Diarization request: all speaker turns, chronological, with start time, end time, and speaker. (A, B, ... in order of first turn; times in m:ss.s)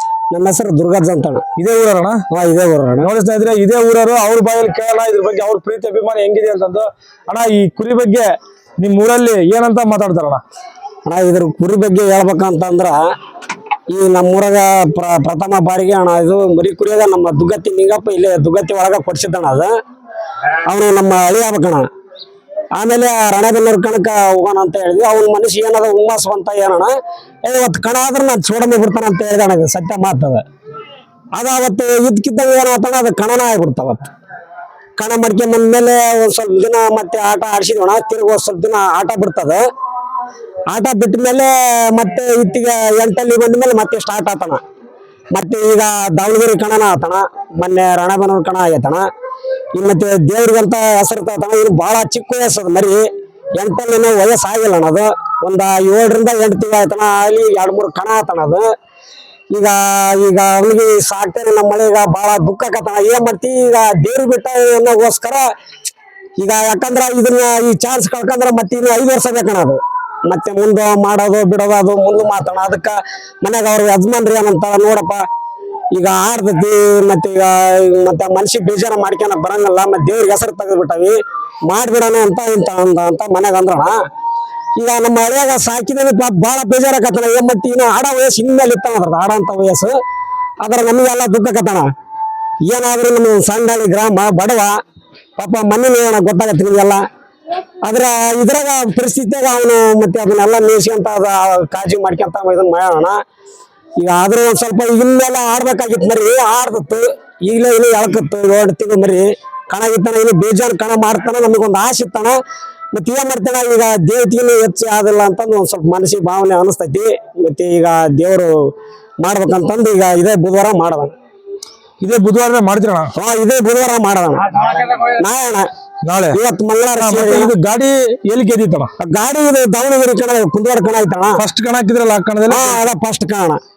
0:00.3-0:01.4 A
0:01.6-0:02.2 B
0:02.3-0:03.1 A
0:03.0-0:08.2 B
0:08.8-0:10.4 B
0:11.0-0:13.0 A
0:13.9-0:19.7 A
0:20.6-0:21.9 A
0:22.7-0:26.9 A
0:27.4-0:30.4 A
0:31.3-0:34.1 A
0:35.0-0:39.6 A
0:40.7-0:44.6 A
0:45.3-0:49.1 A
0:49.7-0:58.7 A
0:59.5-1:05.5 A
1:06.4-1:15.2 A
1:15.9-1:24.0 A
1:24.8-1:30.0 A
1:30.6-1:31.9 A
1:32.6-1:34.8 A
1:35.4-1:37.0 A
1:37.8-1:43.2 A
1:44.0-1:52.4 A
1:52.9-2:01.1 A
2:02.0-2:03.1 B
2:03.1-2:05.7 A
2:06.0-2:06.4 B
2:06.3-2:07.5 A
2:07.0-2:08.9 B
2:09.0-2:11.4 A
2:11.4-2:12.8 B
2:12.5-2:13.6 A